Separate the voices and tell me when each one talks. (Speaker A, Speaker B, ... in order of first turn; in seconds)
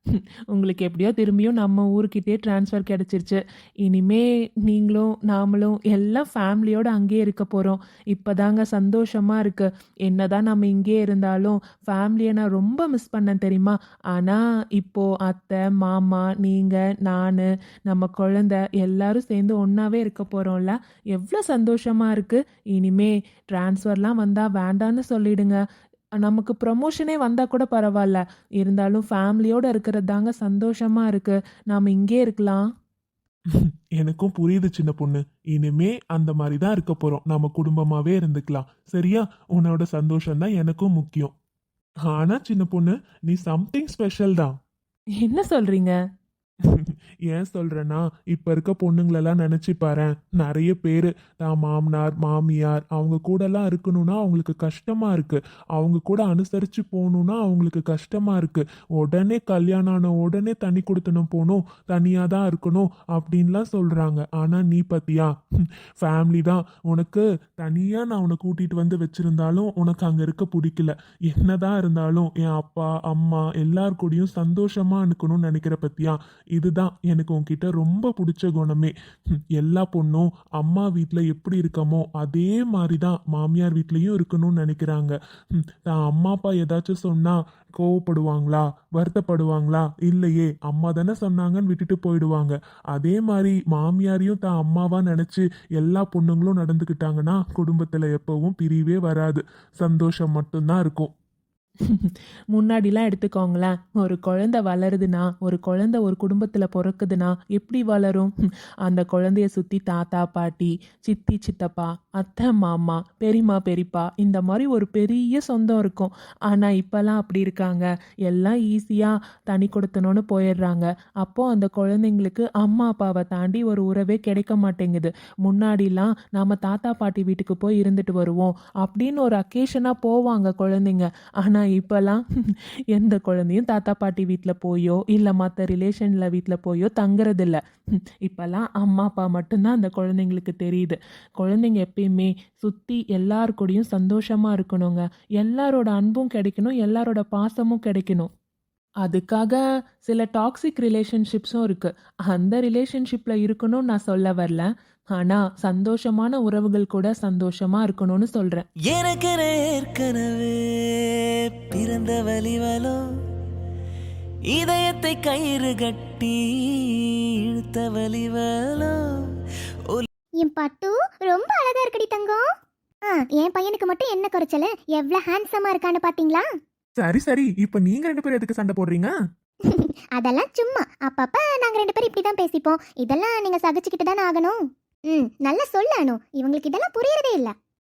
Speaker A: 0.5-25.6, 26.2-32.6, 45.2-46.0, 101.9-108.3, 108.9-132.2, 132.9-137.6, 138.2-148.3, 149.0-158.7
Speaker B: 33.5-41.3, 42.1-44.5, 46.6-78.9, 79.6-101.1, 177.0-179.1
Speaker C: 158.9-160.5, 161.7-163.0, 164.5-166.4, 167.5-169.0
Speaker D: 170.4-172.4, 173.1-176.5, 179.7-187.5